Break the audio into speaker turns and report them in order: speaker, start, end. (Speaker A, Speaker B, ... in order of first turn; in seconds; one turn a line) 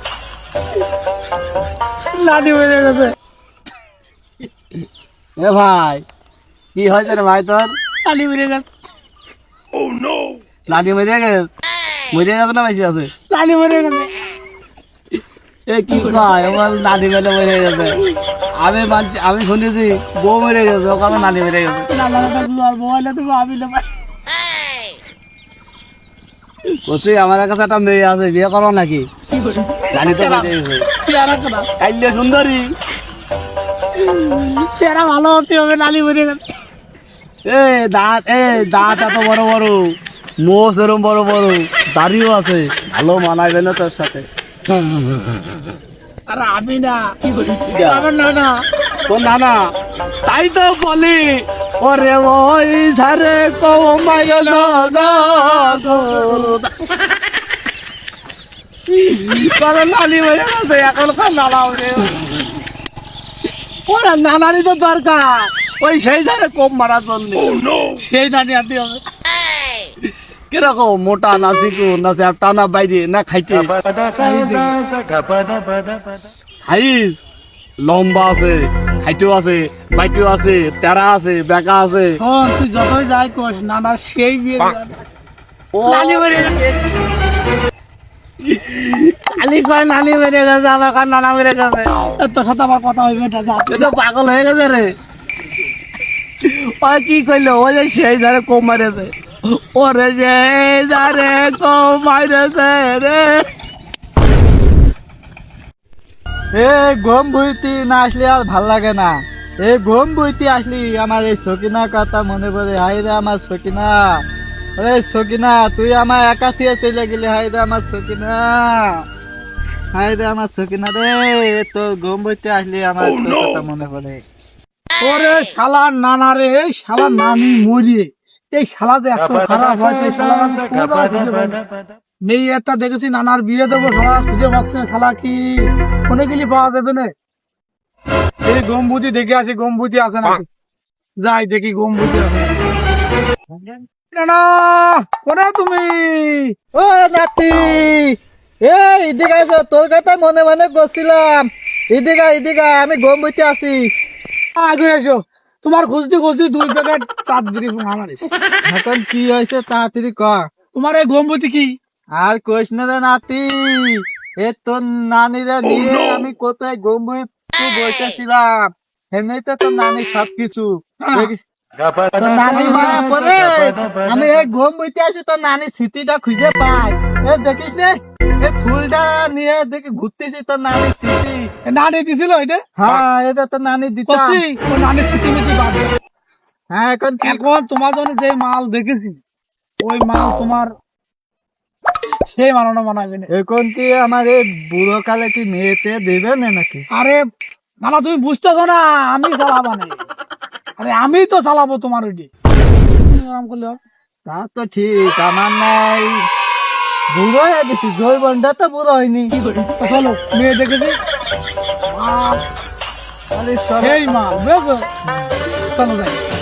Speaker A: 2.1-3.1
Speaker B: 5.4-6.0
Speaker B: 6.7-7.8
Speaker A: 8.0-8.7
Speaker B: 10.7-11.5
Speaker B: 12.1-13.1
Speaker A: 13.3-14.1
Speaker B: 15.7-18.0
Speaker A: 15.9-16.3
Speaker B: 18.6-21.9
Speaker A: 21.9-23.9
Speaker B: 26.9-29.1
Speaker A: 29.3-31.7
Speaker B: 29.9-30.9
Speaker B: 31.8-32.7
Speaker A: 34.2-36.4
Speaker B: 37.4-39.8
Speaker B: 40.4-45.2
Speaker A: 46.3-47.1
Speaker B: 47.2-48.0
Speaker A: 47.7-48.5
Speaker B: 49.1-49.6
Speaker B: 50.2-56.9
Speaker A: 55.6-56.4
Speaker B: 58.9-62.5
Speaker B: 63.9-67.6
Speaker A: 68.0-69.0
Speaker B: 70.5-73.7
Speaker A: 74.1-74.7
Speaker B: 76.6-77.2
Speaker B: 77.8-82.2
Speaker A: 82.2-85.0
Speaker B: 85.7-86.8
Speaker A: 85.8-86.6
Speaker B: 88.4-91.9
Speaker A: 92.2-93.9
Speaker B: 93.7-94.9
Speaker B: 96.4-103.4
Speaker C: 106.5-114.2
Speaker C: 114.8-119.0
Speaker C: 119.9-124.2
Speaker A: 125.0-131.6
Speaker A: 132.2-137.1
Speaker A: 138.4-140.4
Speaker A: 141.2-142.5
Speaker C: 143.5-143.8
Speaker A: 144.1-146.5
Speaker C: 146.7-153.9
Speaker A: 154.6-158.3
Speaker C: 158.7-160.5
Speaker A: 160.7-161.7
Speaker C: 162.2-171.4
Speaker A: 171.0-171.3
Speaker C: 172.1-181.5
Speaker A: 172.5-173.1
Speaker A: 181.7-182.6
Speaker C: 182.8-184.4
Speaker A: 184.1-185.9
Speaker C: 186.7-187.4
Speaker A: 187.2-189.2
Speaker A: 189.8-190.7
Speaker A: 192.2-193.3
Speaker C: 193.3-196.8
Speaker A: 196.9-197.2
Speaker A: 197.8-200.0
Speaker A: 200.8-202.3
Speaker A: 203.1-203.8
Speaker C: 204.2-206.2
Speaker C: 207.1-209.3
Speaker A: 209.6-211.0
Speaker A: 211.9-212.4
Speaker C: 213.3-214.0
Speaker A: 213.8-214.8
Speaker C: 215.0-215.3
Speaker A: 215.6-216.2